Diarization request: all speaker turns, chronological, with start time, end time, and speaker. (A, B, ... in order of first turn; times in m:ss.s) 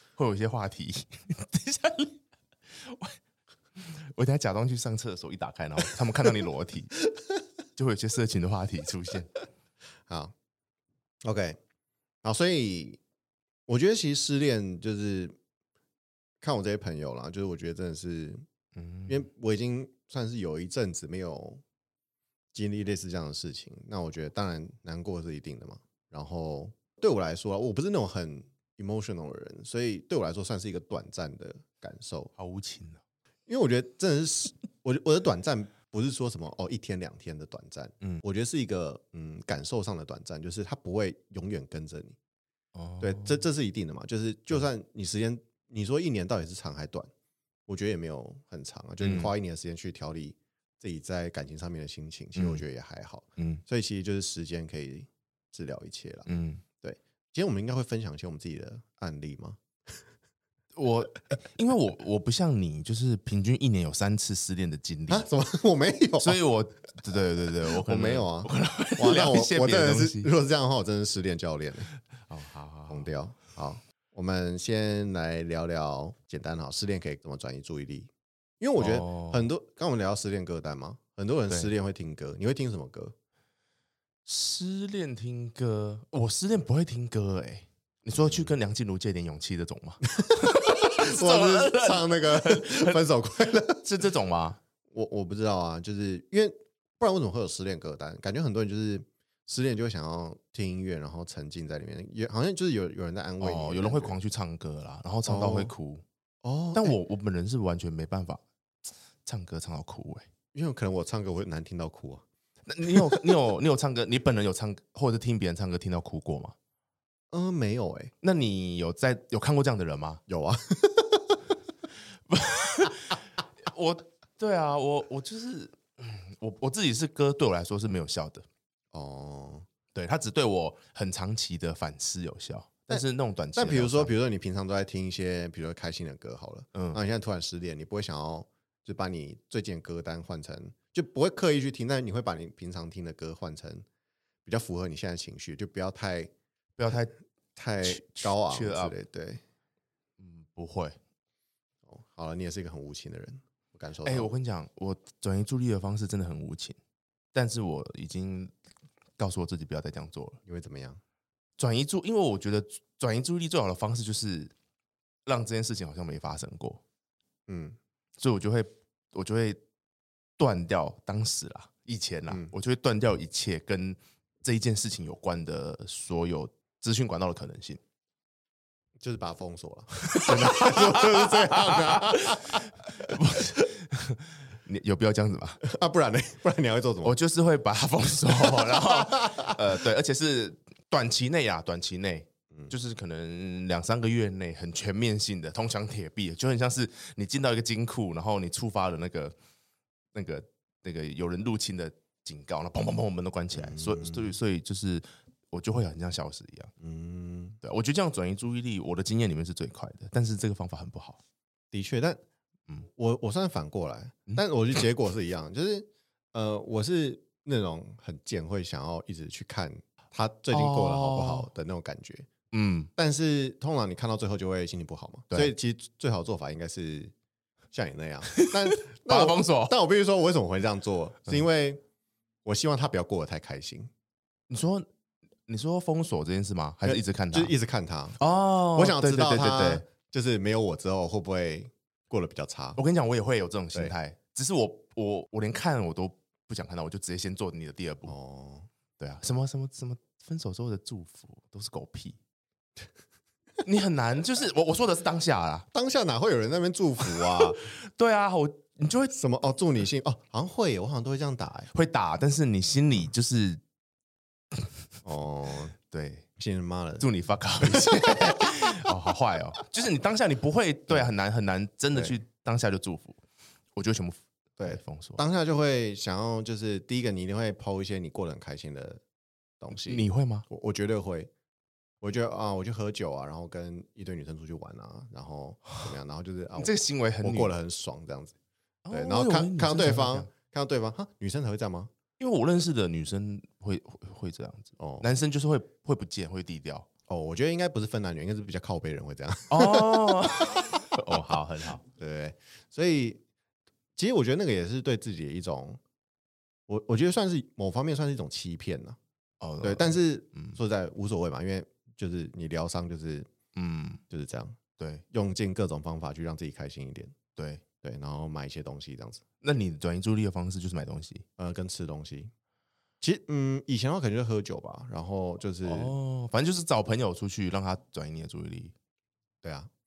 0:00.2-0:02.2 A
0:02.7-0:03.2 A
0:03.8-0:07.0 A
0:07.8-0:09.3 A
0:10.1-0:10.3 B
0:11.2-0:11.6 B
0:12.2-0:13.0 B
0:13.7-0:15.4 B
0:16.4-0:18.4 B
0:18.8-0:19.2 A
0:19.1-0:21.6 B
0:22.5-0:32.3 B
0:32.4-0:33.0 A
0:33.5-0:42.2 B
0:42.7-0:43.3 A
0:43.0-0:47.1 B
0:47.7-0:56.3 B
0:49.0-0:49.3 A
0:52.4-0:52.6 A
0:53.4-0:53.6 A
0:56.2-0:56.6 A
0:56.8-0:59.6 B
1:00.8-1:05.2 A
1:05.1-1:06.4 B
1:06.2-1:10.3 A
1:07.8-1:11.9 B
1:12.3-1:13.1 A
1:12.9-1:23.1 B
1:18.8-1:19.5 A
1:24.2-1:33.0 A
1:28.2-1:28.5 B
1:30.2-1:33.9 B
1:33.8-1:34.6 A
1:34.9-1:44.2 B
1:43.4-1:46.0 A
1:45.2-1:45.7 B
1:46.4-1:47.0 B
1:46.7-1:48.4 A
1:49.2-1:50.3 A
1:50.5-1:52.2 B
1:52.6-1:56.5 A
1:57.3-1:58.1 B
1:58.2-2:00.2 A
2:00.3-2:01.4 B
2:02.3-2:08.4 A
2:08.9-2:09.7 B
2:09.9-2:14.1 A
2:12.9-2:23.8 B
2:24.4-2:26.3 B
2:26.8-2:27.1 A
2:27.6-2:29.4 B
2:27.8-2:28.9 A
2:30.2-2:31.0 A
2:31.9-2:34.3 B
2:34.0-2:36.8 A
2:37.3-2:38.5 A
2:39.2-2:40.4 A
2:40.4-2:41.0 B
2:41.6-2:44.5 A
2:45.2-2:46.8 A
2:47.5-2:47.8 B
2:48.2-2:49.6 A
2:50.4-2:57.8 A
2:59.0-3:03.2 B
3:00.1-3:05.6 A
3:05.6-3:07.2 B
3:07.0-3:19.3 A
3:08.5-3:09.6 B
3:20.1-3:26.7 A
3:23.5-3:24.3 B
3:26.8-3:27.6 B
3:27.6-3:31.2 A
3:31.7-3:32.2 B
3:33.0-3:42.3 B
3:40.5-3:41.5 A
3:42.5-3:42.9 A
3:43.0-3:47.1 B
3:47.7-3:51.8 B
3:48.4-3:49.7 A
3:52.4-3:53.9 B
3:54.5-3:54.8 A
3:55.5-3:57.5 A
3:56.8-3:58.2 B
3:58.2-3:59.8 A
3:58.7-4:02.8 B
4:02.8-4:08.1 A
4:08.0-4:08.7 B
4:09.0-4:12.2 A
4:13.6-4:15.6 A
4:15.7-4:17.7 B
4:17.2-4:19.1 A
4:19.1-4:21.7 B
4:21.7-4:23.6 A
4:25.0-4:25.7 B
4:25.9-4:26.2 A
4:26.4-4:27.1 B
4:27.0-4:33.2 A
4:27.6-4:28.5 B
4:33.7-4:35.2 A
4:34.6-4:39.0 B
4:39.6-4:41.3 B
4:39.8-4:40.4 A
4:42.0-4:48.3 B
4:46.6-4:47.5 A
4:48.8-4:50.3 A
4:48.9-4:51.9 B
4:52.2-4:56.9 A
4:54.8-4:55.1 B
4:57.1-5:01.3 B
4:59.5-5:01.8 A
5:01.9-5:03.2 B
5:04.0-5:05.8 B
5:06.7-5:09.0 B
5:09.4-5:10.6 A
5:09.6-5:13.3 B
5:13.5-5:14.0 A
5:14.1-5:14.6 B
5:14.8-5:15.0 A
5:15.1-5:17.1 B
5:17.4-5:17.6 A
5:17.8-5:19.2 B
5:19.4-5:21.2 A
5:21.4-5:22.3 B
5:23.0-5:25.9 B
5:25.6-5:28.7 A
5:29.4-5:29.7 B